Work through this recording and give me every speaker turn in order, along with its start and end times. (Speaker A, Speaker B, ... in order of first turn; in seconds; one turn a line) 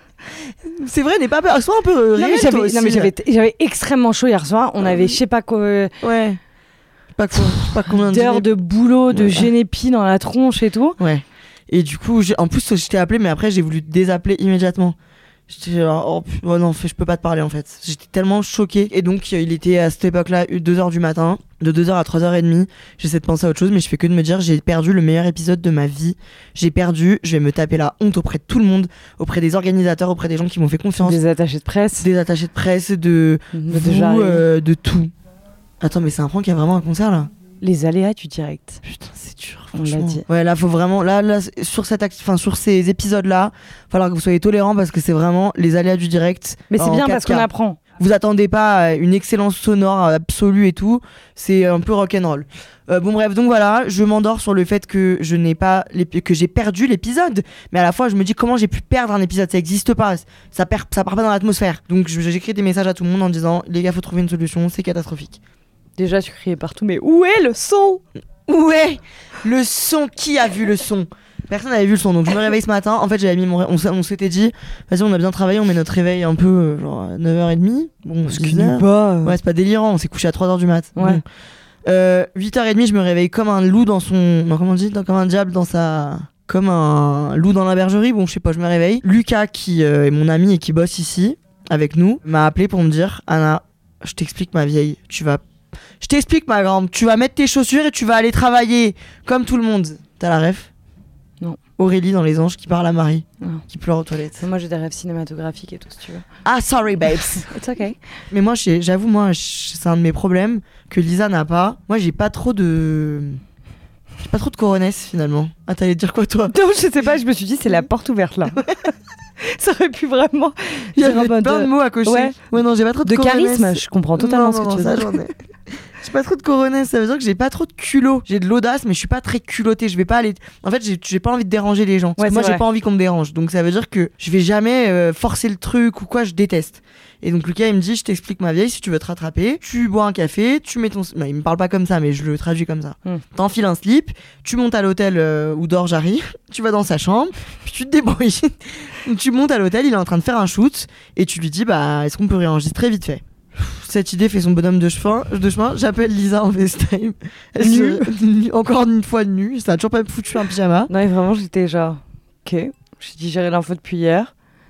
Speaker A: 0.6-3.1
Speaker B: 2.2-5.9
Speaker A: 4.8-5.2
Speaker A: 6.0-6.4
Speaker A: 7.1-8.5
Speaker B: 7.5-11.0
Speaker A: 9.1-9.5
Speaker A: 11.0-15.0
Speaker A: 15.5-31.2
Speaker B: 31.0-32.1
Speaker A: 32.0-35.1
Speaker B: 33.5-34.5
Speaker A: 35.8-37.3
Speaker B: 37.6-38.8
Speaker A: 38.8-65.4
Speaker B: 39.7-40.2
Speaker B: 46.7-47.8
Speaker B: 66.0-68.0
Speaker A: 68.5-81.2
Speaker B: 78.3-79.4
Speaker B: 81.0-81.2
Speaker A: 81.8-95.4
Speaker A: 96.0-100.7
Speaker A: 101.8-104.4
Speaker B: 104.4-106.3
Speaker A: 106.5-107.5
Speaker B: 107.4-108.0
Speaker A: 108.3-113.4
Speaker A: 114.2-116.5
Speaker B: 116.5-118.7
Speaker B: 119.4-122.3
Speaker A: 121.0-125.3
Speaker B: 123.0-125.2
Speaker A: 126.0-160.9
Speaker B: 132.2-132.6
Speaker B: 157.6-158.1
Speaker B: 160.9-164.3